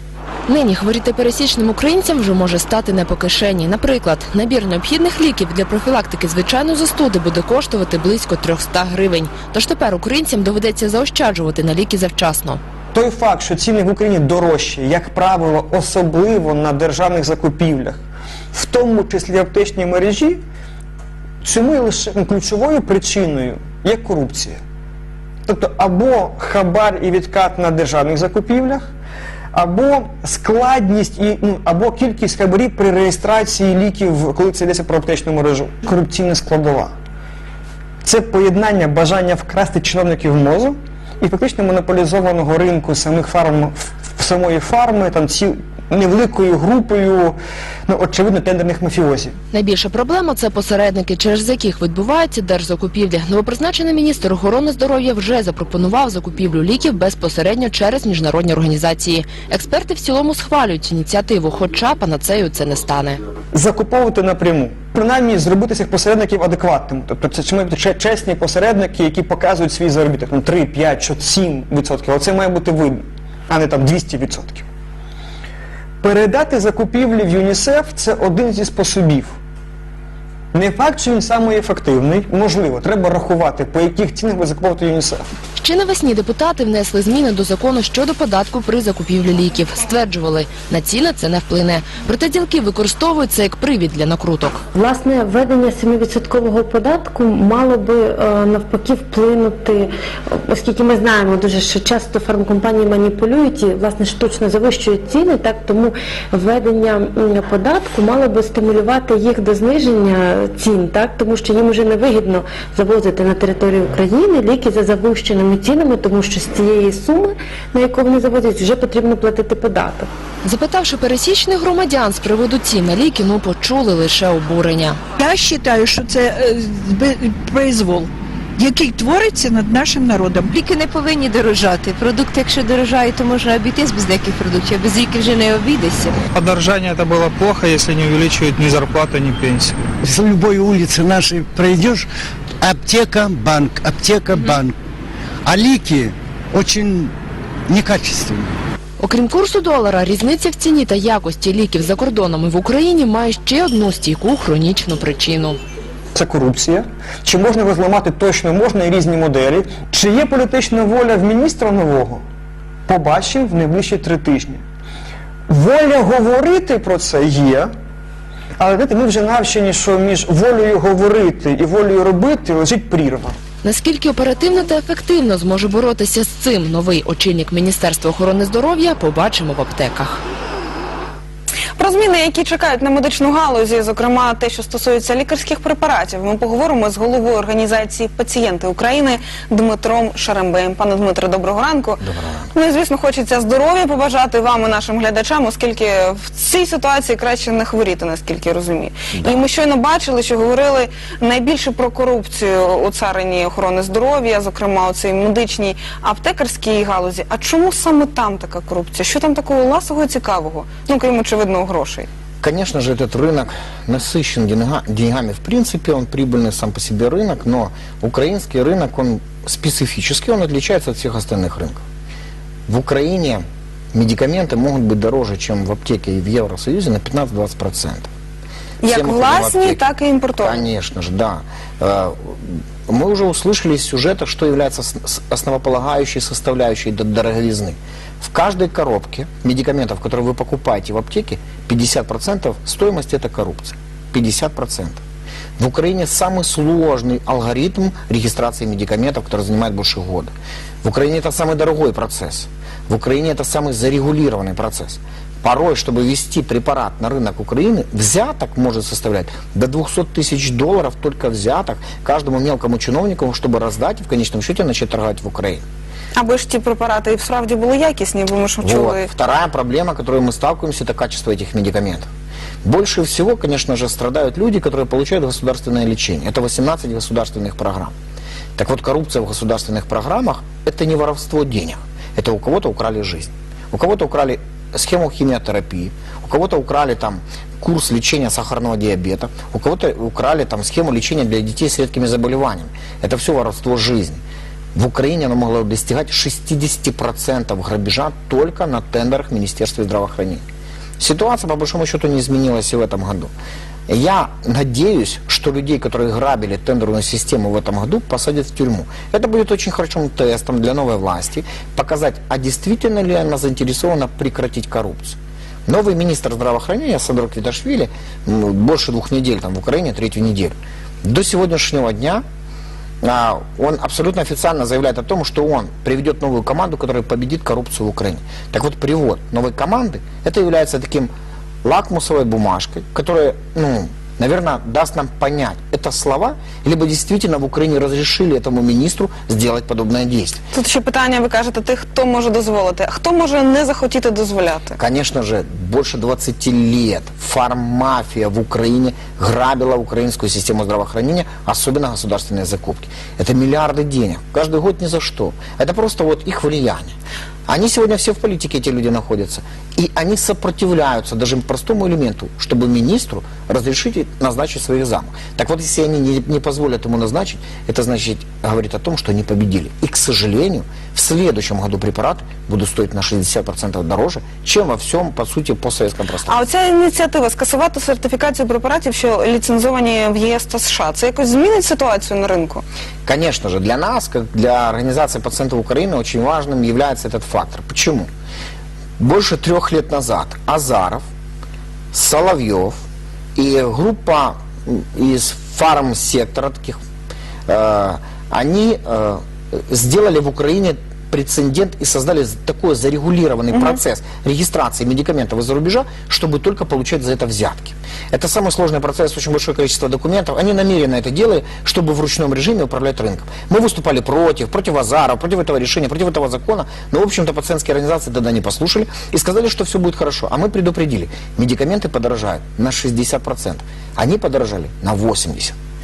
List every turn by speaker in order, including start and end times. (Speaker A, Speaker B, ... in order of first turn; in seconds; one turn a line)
Speaker A: 0.5-12.6
Speaker B: 12.9-18.0
Speaker B: 18.5-20.4
Speaker B: 21.4-24.6
Speaker B: 25.5-28.8
Speaker B: 29.5-36.9
Speaker B: 38.0-49.4
Speaker A: 49.5-63.2
Speaker B: 63.5-74.7
Speaker B: 76.0-79.4
Speaker B: 80.5-85.3
Speaker A: 85.6-94.6
Speaker C: 94.8-120.1
Speaker A: 120.4-125.0
Speaker D: 125.2-130.6
Speaker E: 130.5-136.2
Speaker F: 136.3-139.8
Speaker G: 140.0-142.1
Speaker G: 142.6-144.8
Speaker G: 145.4-147.2
Speaker G: 147.7-148.6
Speaker A: 149.0-155.6
Speaker B: 156.2-162.2
Speaker B: 162.9-164.6
Speaker B: 165.5-167.7
Speaker B: 168.6-173.4
Speaker A: 173.6-180.2
Speaker H: 181.8-192.0
Speaker I: 192.0-192.5
Speaker H: 192.5-212.1
Speaker I: 199.1-199.4
Speaker I: 212.4-221.8
Speaker I: 222.7-228.1
Speaker H: 228.8-230.7
Speaker I: 228.9-229.8
Speaker I: 230.4-245.0
Speaker I: 245.6-265.6
Speaker H: 266.1-269.1
Speaker I: 268.6-272.1
Speaker I: 272.6-277.9
Speaker I: 278.6-294.2
Speaker I: 294.8-300.4
Speaker I: 301.0-303.3
Speaker I: 303.9-322.2
Speaker I: 323.0-331.1
Speaker I: 331.6-340.4
Speaker H: 340.5-344.8
Speaker I: 344.8-356.9
Speaker I: 357.5-376.4
Speaker H: 376.3-382.6
Speaker I: 383.1-388.1
Speaker I: 389.0-391.1
Speaker I: 391.9-392.8
Speaker I: 393.4-396.8
Speaker I: 397.5-425.6
Speaker H: 403.5-403.8